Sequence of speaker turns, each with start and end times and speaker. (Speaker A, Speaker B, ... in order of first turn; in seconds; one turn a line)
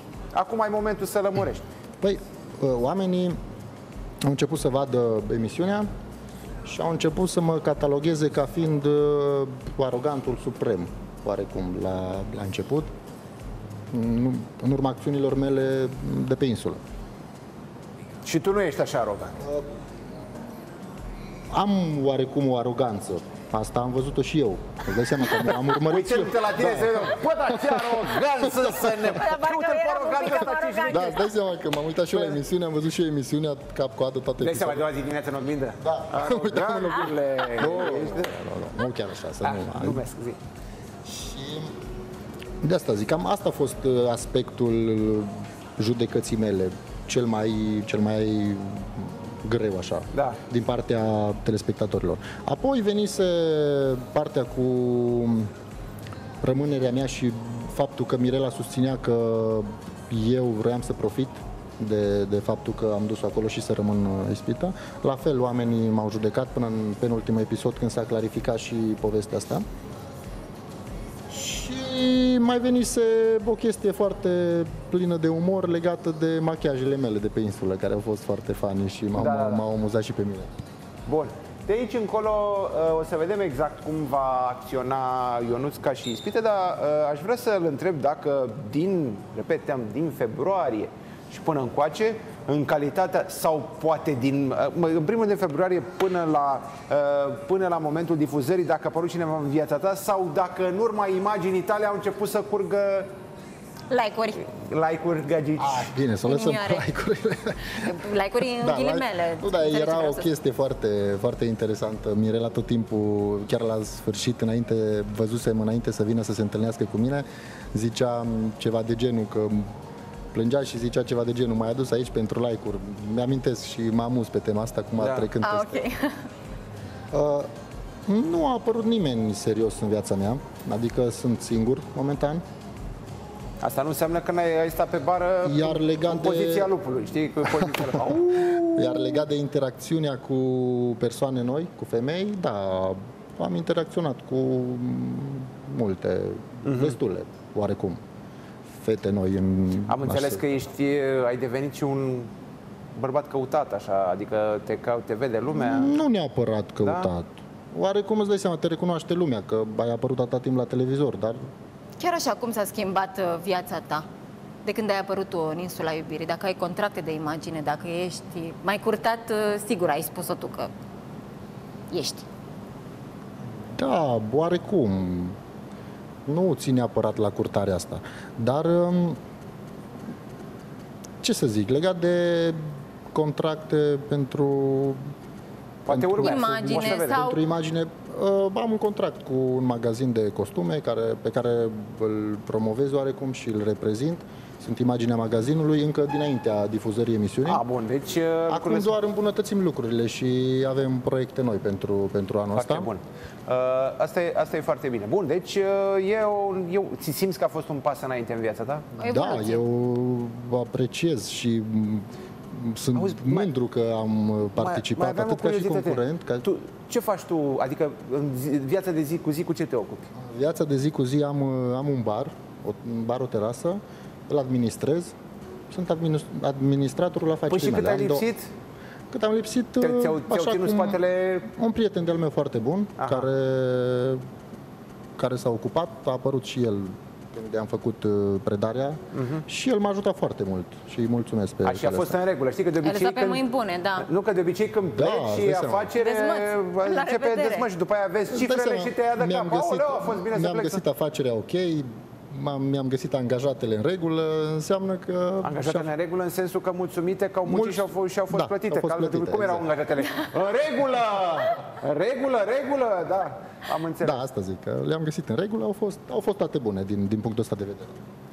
Speaker A: 0.3-1.7
Speaker B: 2.0-3.4
Speaker B: 4.2-5.9
Speaker B: 6.7-12.9
Speaker B: 13.9-16.8
Speaker A: 18.2-19.4
Speaker B: 21.5-29.1
Speaker A: 25.7-31.2
Speaker C: 29.0-31.3
Speaker B: 30.9-34.9
Speaker A: 34.4-38.3
Speaker B: 35.8-40.0
Speaker A: 39.4-40.4
Speaker B: 41.0-41.7
Speaker B: 42.6-55.5
Speaker A: 50.1-50.4
Speaker B: 56.4-69.6
Speaker B: 71.3-80.5
Speaker A: 79.1-79.6
Speaker A: 81.1-103.1
Speaker C: 103.9-104.4
Speaker A: 104.4-105.9
Speaker B: 105.6-119.7
Speaker C: 106.2-106.9
Speaker C: 107.8-110.3
Speaker B: 120.3-125.8
Speaker A: 125.0-125.3
Speaker C: 125.4-126.2
Speaker B: 127.1-127.5
Speaker B: 128.1-132.4
Speaker A: 133.6-139.2
Speaker B: 135.4-136.8
Speaker B: 137.4-148.0
Speaker A: 146.6-147.0
Speaker B: 148.8-150.5
Speaker A: 149.9-152.3
Speaker A: 152.9-156.0
Speaker B: 155.5-161.5
Speaker A: 156.8-157.1
Speaker C: 162.0-164.1
Speaker C: 164.6-170.7
Speaker C: 171.9-172.2
Speaker B: 173.7-175.4
Speaker B: 176.2-179.2
Speaker B: 181.2-185.0
Speaker A: 185.8-187.2
Speaker B: 185.9-197.6
Speaker C: 186.2-187.4
Speaker A: 197.4-199.0
Speaker B: 198.5-202.9
Speaker A: 202.5-208.9
Speaker C: 209.0-209.6
Speaker B: 209.0-216.4
Speaker A: 212.9-213.5
Speaker A: 214.6-220.1
Speaker B: 220.2-225.1
Speaker B: 225.7-228.3
Speaker A: 227.5-228.5
Speaker B: 229.1-234.2
Speaker A: 229.8-231.5
Speaker A: 233.0-233.3
Speaker B: 235.2-242.2
Speaker A: 239.1-239.4
Speaker A: 241.6-243.4
Speaker C: 242.8-244.1
Speaker A: 244.0-250.8
Speaker B: 244.9-245.9
Speaker C: 246.0-247.7
Speaker B: 248.3-255.9
Speaker A: 255.4-264.2
Speaker B: 257.4-259.6
Speaker B: 264.0-267.9